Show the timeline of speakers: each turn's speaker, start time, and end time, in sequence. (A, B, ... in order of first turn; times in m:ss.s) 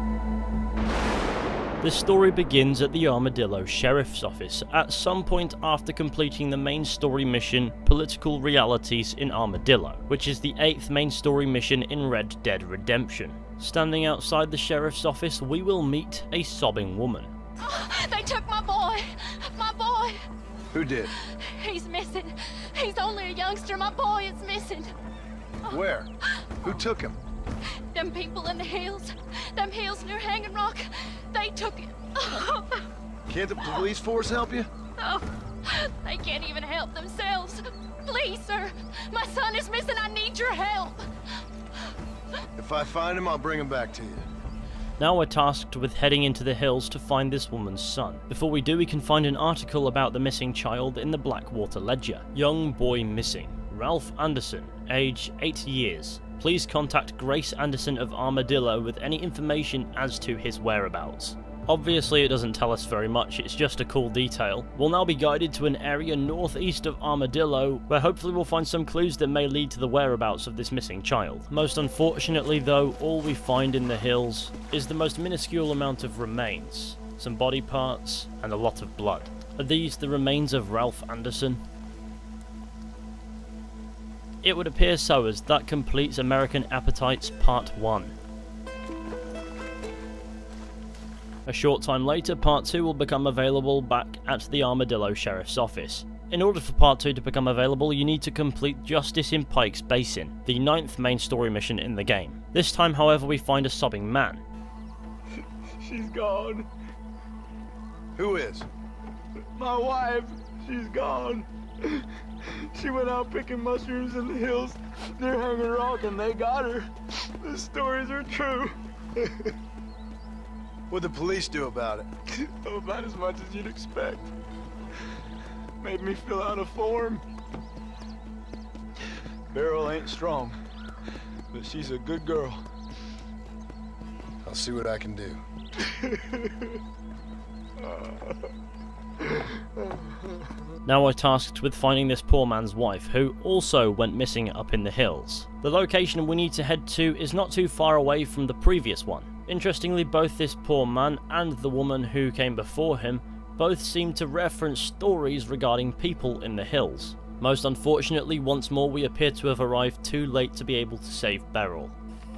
0:01.8-0:17.3 A
0:17.6-0:20.2 B
0:20.7-0:21.1 C
0:21.1-0:24.9 B
0:25.7-0:26.1 C
0:26.6-0:27.2 C
0:27.7-0:32.9 B
0:33.3-0:34.7 C
0:35.0-0:41.0 B
0:42.6-0:44.3 C
0:45.0-1:21.6 A
1:24.4-1:28.2 A
1:31.4-1:44.4 A
1:45.8-1:46.7 D
1:48.2-1:48.7 C
1:49.6-1:56.9 D
1:57.4-1:59.5 D
2:00.9-2:02.1 C
2:02.4-2:04.3 D
2:05.8-2:07.2 D
2:09.5-2:10.6 D
2:11.5-2:12.6 D
2:14.4-2:15.4 C
2:16.0-2:16.5 D
2:20.8-2:41.9 A